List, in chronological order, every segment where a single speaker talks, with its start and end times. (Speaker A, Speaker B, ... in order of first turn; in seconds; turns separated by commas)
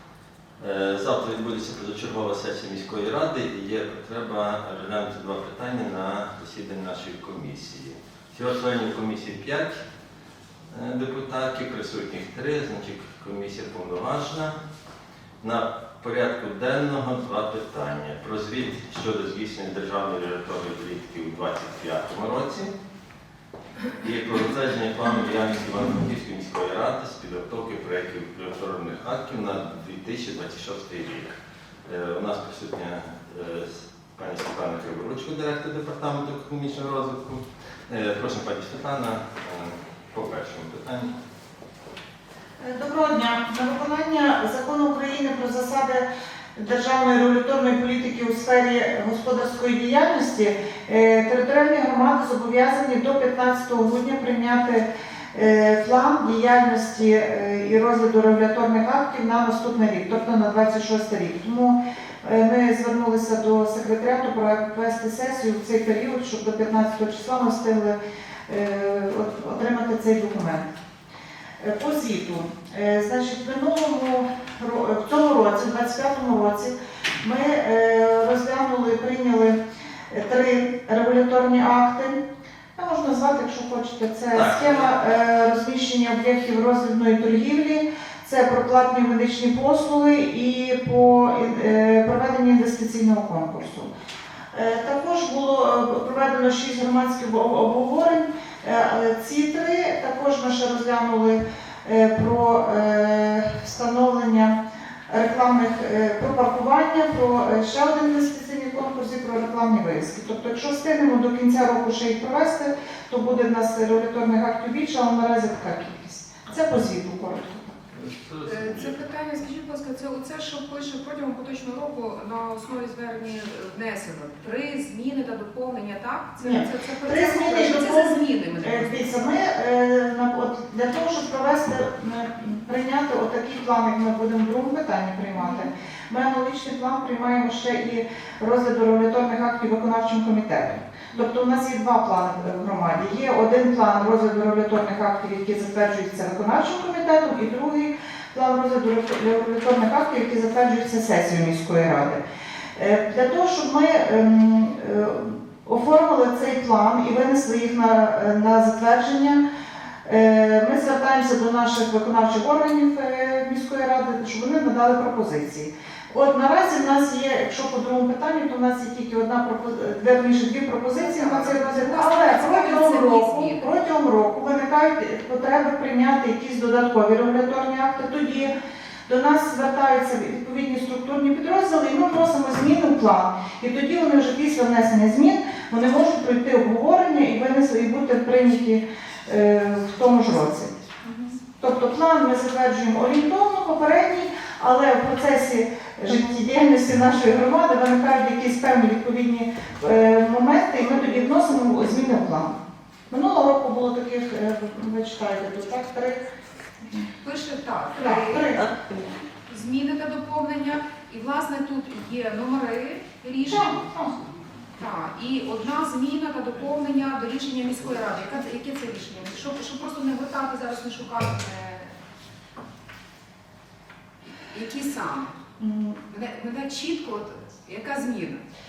Speaker A: 0.6-9.8, Speaker A: 10.7-14.5, Speaker A: 15.4-22.7, Speaker A: 24.0-41.1, Speaker B: 42.6-68.0, Speaker B: 68.5-70.7, Speaker B: 71.6-79.6, Speaker B: 80.1-82.2, Speaker B: 82.8-93.9, Speaker A: 84.3-84.9, Speaker B: 94.5-104.5, Speaker B: 105.1-117.8, Speaker A: 117.9-119.0, Speaker C: 118.4-129.2, Speaker B: 126.4-152.2, Speaker C: 135.3-135.7, Speaker B: 152.8-159.4, Speaker B: 160.0-178.5, Speaker C: 171.0-173.7, Speaker B: 179.1-190.7, Speaker C: 189.3-191.4, Speaker B: 191.6-202.6, Speaker B: 203.1-206.2, Speaker C: 207.2-208.9, Speaker B: 208.0-208.7, Speaker C: 209.4-221.9, Speaker B: 213.5-214.1, Speaker A: 216.5-217.0, Speaker A: 217.7-219.4, Speaker C: 224.5-225.3, Speaker B: 225.6-226.0, Speaker C: 226.1-228.4